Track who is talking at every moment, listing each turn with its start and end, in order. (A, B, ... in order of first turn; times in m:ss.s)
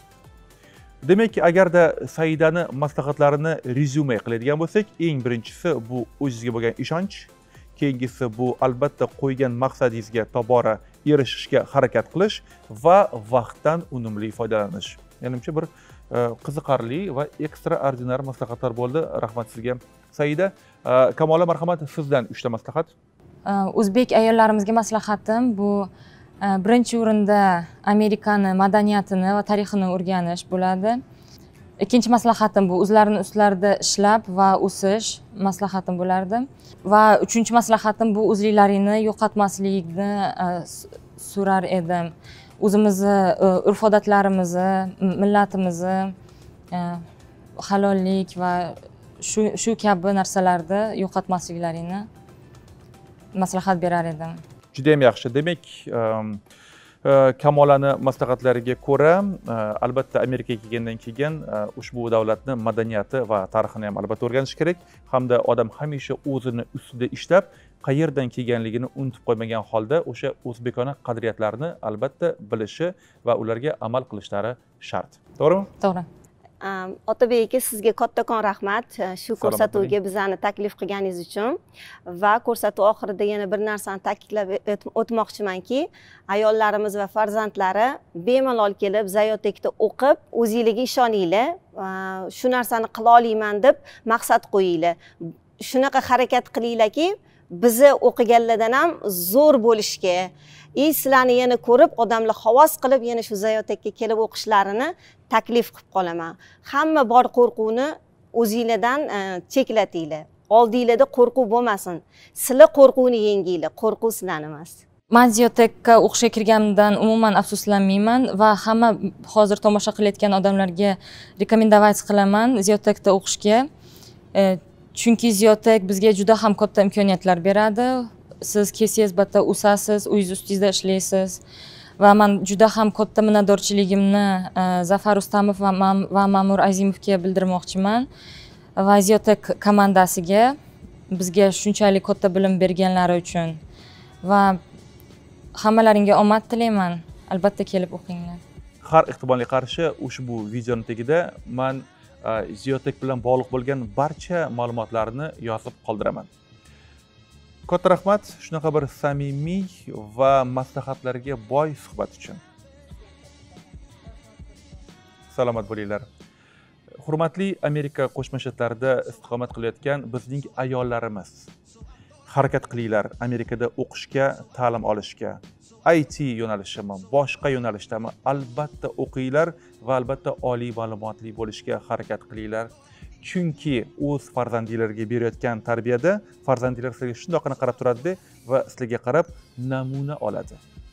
0:01.0-0:22.9 A
0:23.4-0:25.9 B
0:26.4-0:31.0 B
0:31.8-0:46.1 B
0:46.7-0:47.0 B
0:47.6-0:52.1 B
0:53.3-0:54.4 B
0:54.7-0:56.4 A
0:57.0-1:15.7 A
1:15.8-1:16.1 B
1:16.6-1:35.0 C
1:19.4-1:19.9 A
1:35.6-1:54.8 C
1:55.1-2:03.7 B
2:04.3-2:11.4 B
2:12.0-2:18.1 B
2:18.8-2:20.6 B
2:21.1-2:23.6 B
2:24.2-2:24.6 B
2:25.6-2:28.4 B
2:28.8-2:36.3 A
2:37.7-2:42.4 A
2:45.3-2:46.1 A
2:47.0-2:51.5 A
2:52.3-3:02.7 A
3:03.2-3:10.6 A